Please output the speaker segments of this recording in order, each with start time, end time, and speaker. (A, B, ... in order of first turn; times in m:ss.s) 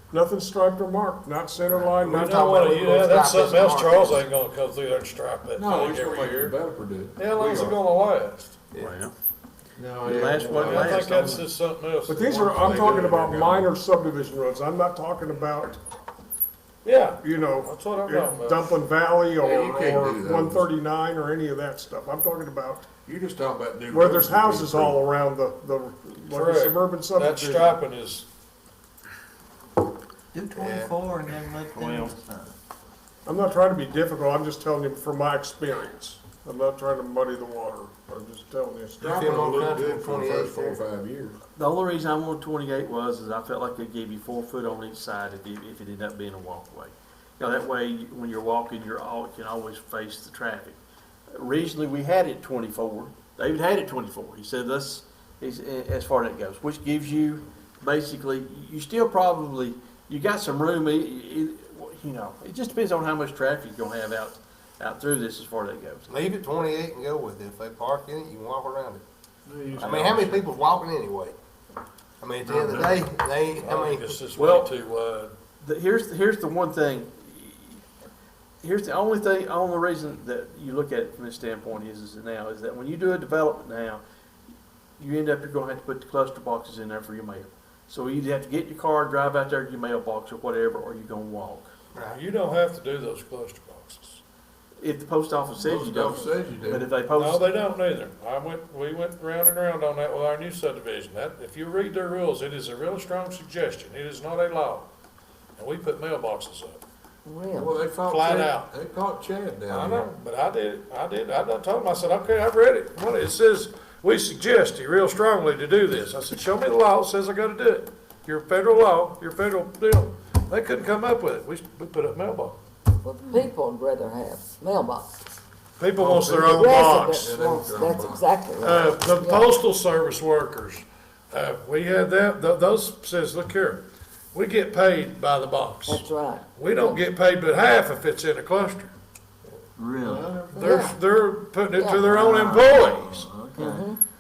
0:00.1-0:02.7 A
0:01.7-0:04.2 B
0:02.1-0:06.6 C
0:05.6-0:07.7 D
0:07.2-0:08.6 C
0:08.8-0:09.1 E
0:09.8-0:11.1 D
0:10.0-0:11.5 E
0:10.6-0:12.8 C
0:12.1-0:15.8 A
0:12.4-0:13.7 D
0:16.8-0:18.7 C
0:17.2-0:22.9 A
0:19.4-0:20.6 D
0:23.0-0:25.0 D
0:23.9-0:27.7 A
0:26.3-0:28.3 C
0:30.3-0:32.6 F
0:30.5-0:31.0 B
0:31.8-0:32.1 E
0:33.3-0:39.3 A
0:39.0-0:40.8 B
0:39.0-0:41.4 D
0:41.6-0:50.8 E
0:51.3-1:06.1 E
1:06.1-1:09.0 B
1:09.5-1:10.5 D
1:09.8-1:11.4 B
1:12.2-1:14.2 B
1:12.4-1:13.1 D
1:13.6-1:15.3 C
1:14.4-1:14.7 E
1:15.6-1:17.8 E
1:18.6-1:24.0 E
1:25.0-1:31.7 E
1:31.9-1:32.2 B
1:32.1-1:34.2 C
1:34.8-1:37.5 E
1:35.6-1:36.9 D
1:37.1-1:44.9 C
1:45.6-1:46.8 C
1:47.2-1:47.8 G
1:47.5-1:50.1 D
1:48.0-1:48.7 C
1:49.7-2:02.6 C
2:03.0-2:05.1 G
2:05.8-2:07.3 C
2:06.0-2:08.4 D
2:06.5-2:09.6 G
2:08.6-2:13.8 C
2:14.3-2:18.9 C
2:15.9-2:17.0 G
2:19.8-2:20.4 F
2:20.0-2:21.0 D
2:20.5-2:23.3 C
2:21.7-2:22.1 G
2:22.1-2:23.9 F
2:23.6-2:24.0 G